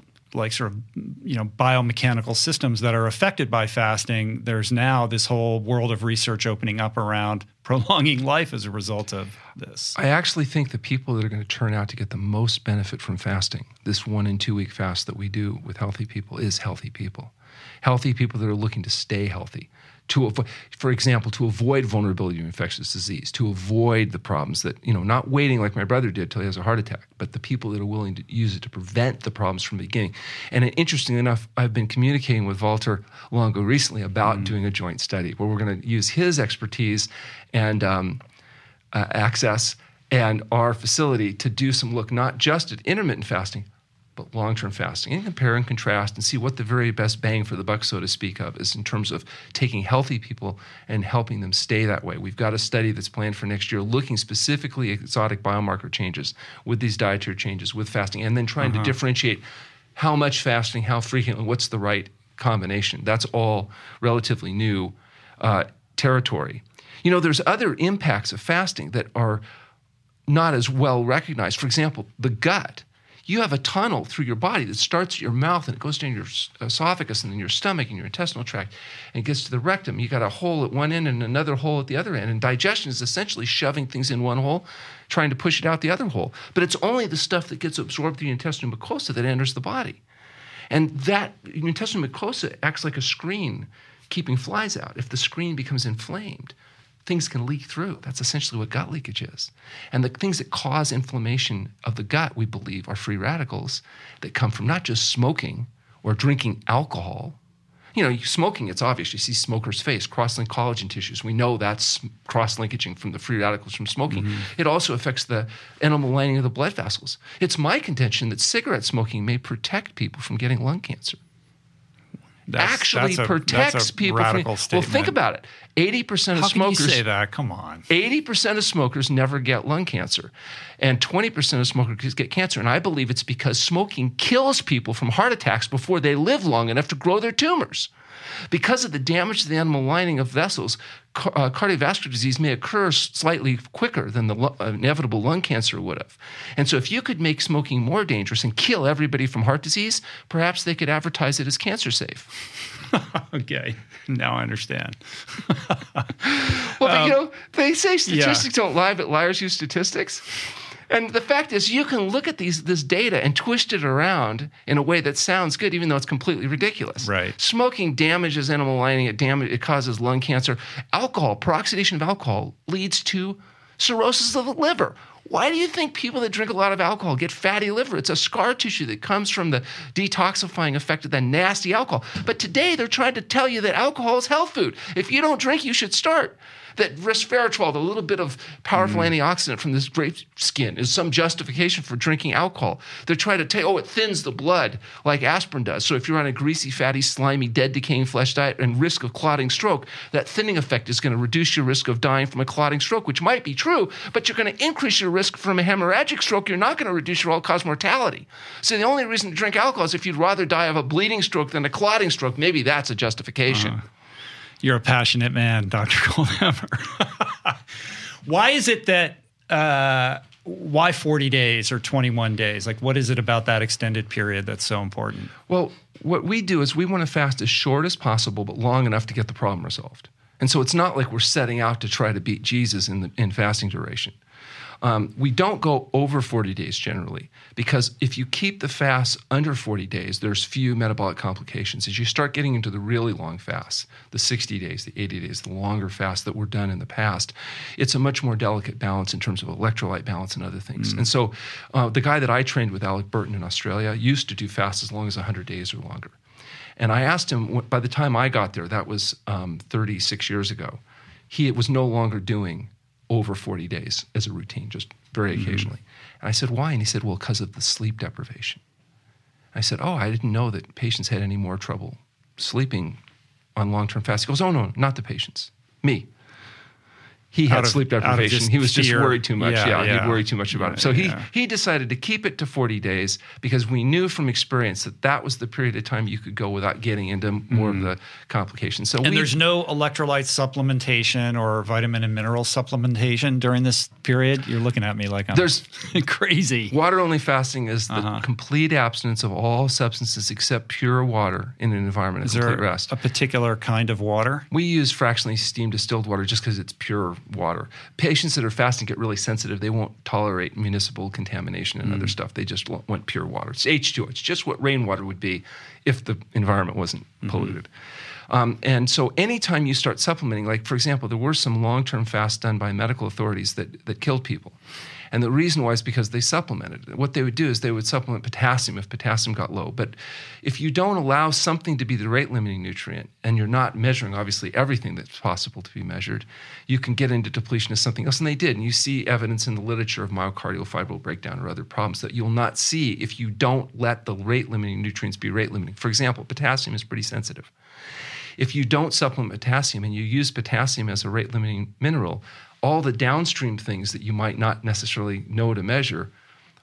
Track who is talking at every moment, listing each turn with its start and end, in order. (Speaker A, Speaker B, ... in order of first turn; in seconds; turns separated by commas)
Speaker A: 0.3-10.0, Speaker B: 9.9-38.2, Speaker B: 38.9-59.4, Speaker A: 58.6-58.9, Speaker B: 60.0-69.4, Speaker B: 70.3-90.0, Speaker B: 90.7-96.5, Speaker B: 97.1-107.4, Speaker B: 108.0-121.2, Speaker A: 114.1-114.5, Speaker A: 122.5-125.2, Speaker B: 122.6-127.0, Speaker A: 126.3-127.9, Speaker B: 127.9-137.9, Speaker B: 138.5-152.3, Speaker A: 152.9-157.2, Speaker B: 156.3-213.8, Speaker A: 158.1-158.5, Speaker A: 167.0-167.4, Speaker A: 188.8-189.1, Speaker A: 213.5-213.8, Speaker A: 214.6-225.3, Speaker B: 225.5-234.2, Speaker B: 234.8-256.1, Speaker B: 256.8-268.6, Speaker A: 265.4-265.7, Speaker B: 269.5-273.0, Speaker B: 273.6-276.1, Speaker B: 277.3-289.4, Speaker A: 277.5-281.3, Speaker A: 287.5-287.9, Speaker A: 289.0-296.8, Speaker B: 295.3-295.7, Speaker B: 296.7-302.9, Speaker A: 297.9-298.2, Speaker A: 302.2-304.5, Speaker B: 304.5-317.7, Speaker A: 311.8-312.1, Speaker A: 317.3-317.5, Speaker B: 318.3-324.6, Speaker B: 325.1-347.5, Speaker B: 348.4-356.1